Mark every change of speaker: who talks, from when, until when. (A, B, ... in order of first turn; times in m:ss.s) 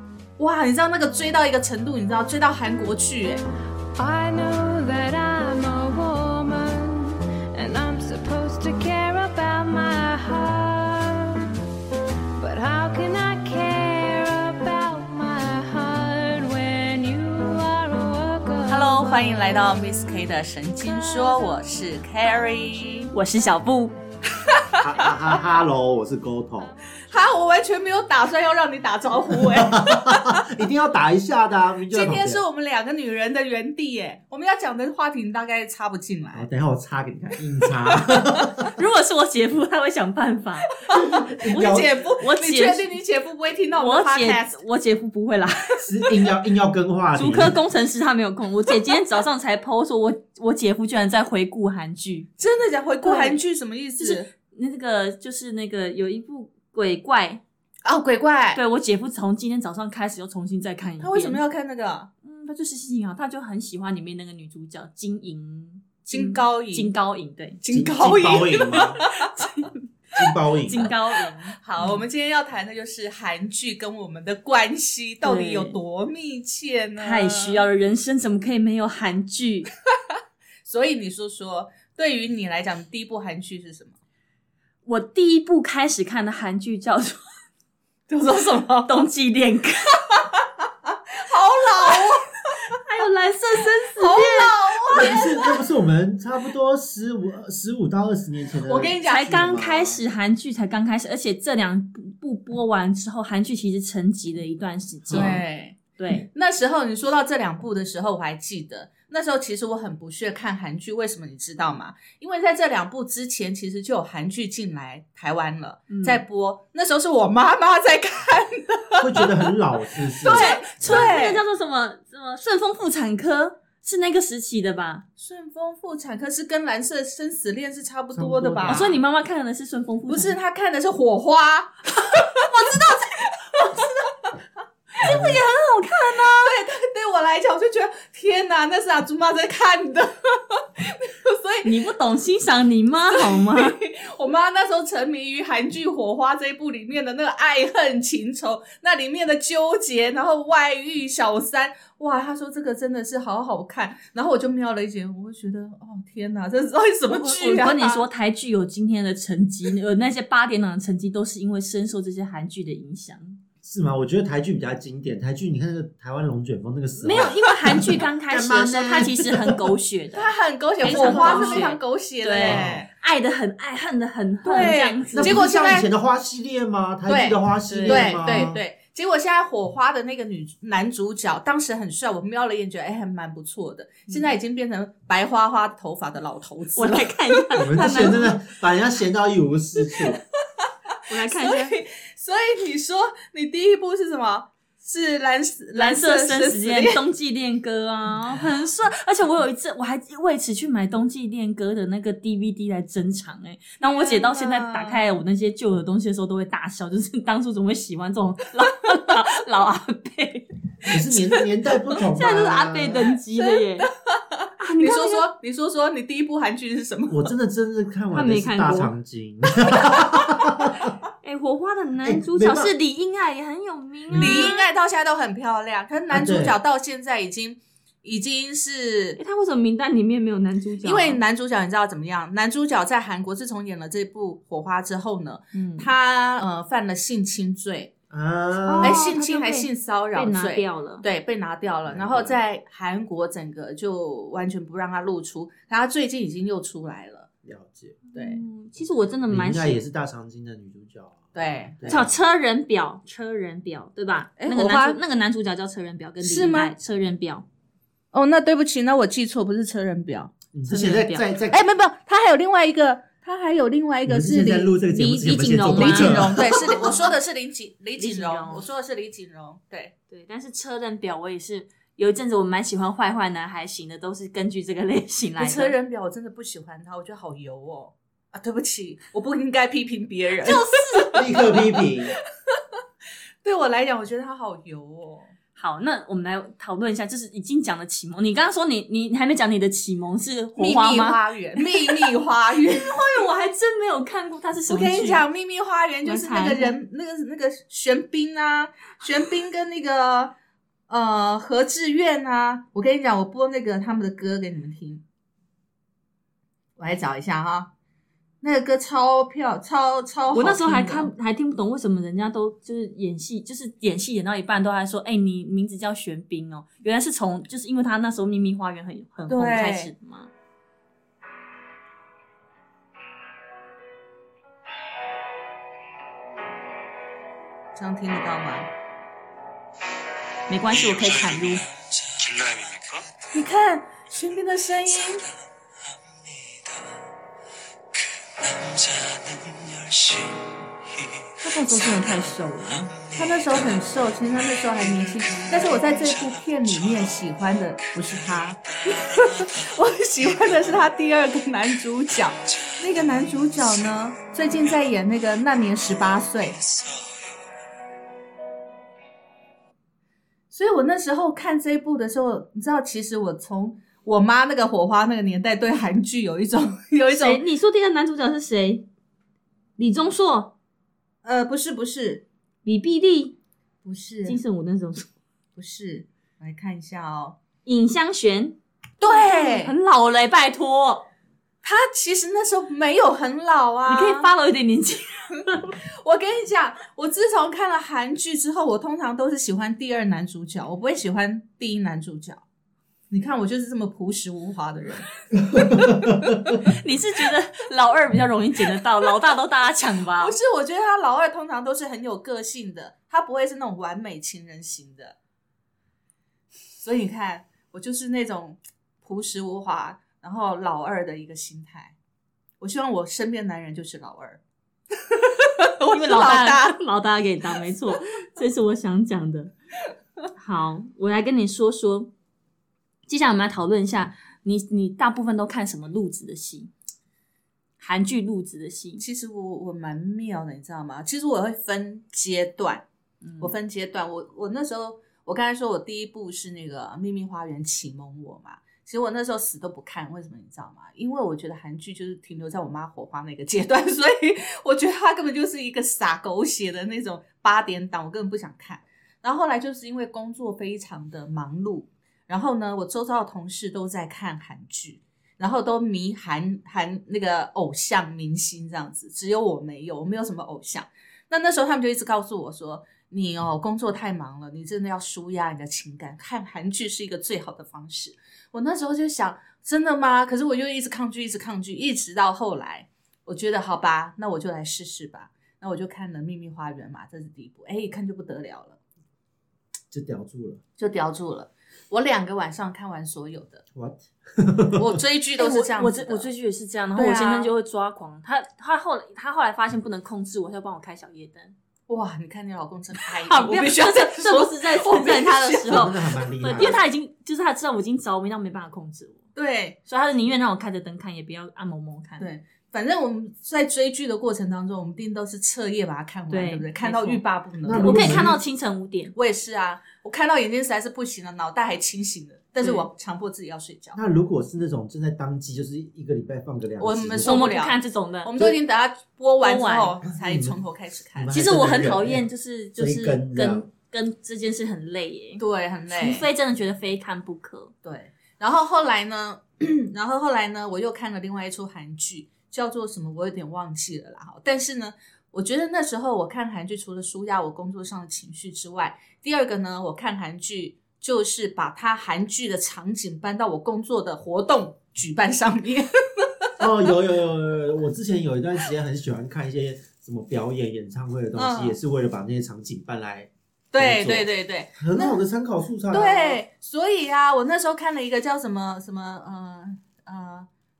0:00.4-0:03.4 A
0:03.9-0:11.5 B
0:12.4-0:19.4 B
0:18.7-0:23.1 A
0:23.1-0:23.9 C
0:24.4-0:25.4 A
0:24.8-0:26.7 D
0:27.1-0:30.4 A
0:29.4-0:32.4 D
0:31.9-0:36.5 A
0:36.3-0:38.7 D
0:38.7-0:40.8 C
0:40.9-0:44.6 A
0:40.9-0:41.9 D
0:42.2-0:42.9 C
0:43.7-0:46.3 C
0:45.8-0:47.6 D
0:47.1-0:52.3 C
0:52.4-0:54.3 A
0:53.0-0:53.4 C
0:54.0-0:57.4 C
0:57.8-0:58.6 A
0:58.5-1:01.4 C
1:01.0-1:02.1 A
1:02.2-1:07.6 C
1:06.1-1:06.9 A
1:07.6-1:09.3 A
1:07.7-1:09.0 D
1:08.7-1:11.6 C
1:10.1-1:10.9 D
1:11.6-1:17.6 A
1:15.2-1:15.8 C
1:17.0-1:19.7 C
1:20.6-1:24.0 A
1:24.8-1:27.2 C
1:28.1-1:28.9 A
1:28.8-1:30.1 C
1:30.8-1:32.7 A
1:32.7-1:35.4 C
1:34.0-1:35.3 A
1:34.9-1:40.0 D
1:38.6-1:39.5 A
1:39.0-1:46.3 C
1:45.1-1:45.4 D
1:45.1-1:59.4 A
1:55.9-1:56.2 C
1:59.0-2:01.2 D
2:00.2-2:01.4 A
2:00.2-2:05.0 C
2:05.2-2:08.9 A
2:08.1-2:09.0 D
2:08.7-2:10.4 C
2:10.1-2:14.3 A
2:12.4-2:14.1 C
2:15.0-2:16.6 C
2:15.0-2:15.4 D
2:16.3-2:21.7 A
2:21.6-2:23.8 C
2:23.2-2:38.0 A
2:37.1-2:43.4 C
2:43.6-2:49.7 D
2:47.0-2:55.4 C
2:50.1-2:52.9 A
2:50.8-2:51.6 D
2:52.4-2:52.8 D
2:54.4-2:55.9 A
2:55.1-2:58.6 D
2:57.0-3:08.3 A
2:57.7-2:58.5 C
3:06.8-3:08.4 C
3:07.6-3:10.2 D
3:10.6-3:17.0 A
3:11.1-3:11.8 C
3:15.7-3:31.2 C
3:23.8-3:25.0 A
3:30.9-3:33.1 D
3:32.0-3:33.9 C
3:33.3-3:37.3 A
3:34.6-3:35.3 C
3:37.1-3:40.9 D
3:38.1-3:38.9 C
3:41.2-3:44.6 C
3:42.0-3:42.7 D
3:44.1-3:44.5 D
3:44.2-3:49.2 A
3:46.1-3:46.5 D
3:49.2-3:51.2 C
3:50.8-3:57.9 A
3:55.5-3:55.9 C
3:58.1-3:59.0 D
3:58.6-4:01.0 C
3:58.8-4:07.3 A
4:01.8-4:02.4 D
4:07.4-4:08.0 D
4:08.1-4:09.8 C
4:08.1-4:08.4 A
4:09.3-4:12.2 D
4:11.3-4:11.8 A
4:11.8-4:17.4 C
4:14.4-4:15.0 A
4:16.2-4:16.7 A
4:18.1-4:20.3 A
4:20.5-4:21.6 D
4:20.7-4:21.2 C
4:21.5-4:24.7 A
4:24.0-4:26.7 D
4:24.8-4:27.0 C
4:25.6-4:29.9 A
4:28.0-4:28.6 C
4:30.1-4:35.7 C
4:35.4-4:41.6 A
4:40.4-4:41.6 C
4:41.1-4:42.1 D
4:43.4-4:45.3 A
4:45.6-4:55.2 C
4:50.6-4:53.0 A
4:54.7-5:00.3 A
4:56.0-4:56.8 C
5:00.9-5:05.0 A
5:06.8-5:07.7 A
5:08.4-5:11.1 A
5:10.3-5:20.3 C
5:19.3-5:19.9 A
5:27.7-5:28.7 A
5:30.5-5:31.6 C
5:33.3-5:35.3 A
5:41.4-5:43.1 C
5:43.1-5:56.7 A
6:00.5-6:07.4 A
6:07.1-6:08.8 C
6:09.8-6:10.5 C
6:11.2-6:12.2 A
6:12.6-6:13.3 C
6:13.8-6:14.4 A
6:14.2-6:15.1 C
6:15.6-6:17.4 A
6:17.6-6:21.1 C
6:19.0-6:19.7 A
6:21.6-6:24.3 A
6:23.9-6:25.8 C
6:26.0-6:32.4 A
6:33.1-6:36.2 A
6:35.5-6:36.4 D
6:36.6-6:40.4 C
6:40.2-6:45.2 A
6:46.8-6:51.9 A
6:52.6-6:54.4 A
6:55.0-6:56.8 A
6:55.9-6:59.5 C
7:00.3-7:02.1 C
7:03.1-7:06.7 C
7:07.8-7:09.0 C
7:09.0-7:12.8 A
7:13.2-7:13.5 C
7:13.4-7:58.8 A
7:59.9-8:00.6 D
8:00.8-8:03.6 A
8:03.7-8:05.0 D
8:04.8-8:06.3 A
8:05.4-8:11.5 C
8:06.9-8:07.5 A
8:11.9-8:15.9 A
8:13.2-8:19.2 C
8:15.6-8:16.8 D
8:19.3-8:19.8 A
8:19.9-8:22.3 C
8:22.2-8:28.4 A
8:26.3-8:29.1 C
8:27.6-8:28.4 D
8:29.1-8:34.0 A
8:32.6-8:32.9 C
8:33.9-8:37.5 D
8:36.8-8:41.4 A
8:37.2-8:38.3 C
8:39.4-8:39.9 C
8:40.0-8:40.6 D
8:41.1-8:42.2 D
8:41.3-8:47.7 C
8:42.8-8:43.6 D
8:45.4-8:46.2 A
8:47.8-9:06.5 A
9:06.6-9:16.4 D
9:11.3-9:11.8 A
9:13.7-9:15.2 A
9:15.9-9:20.5 A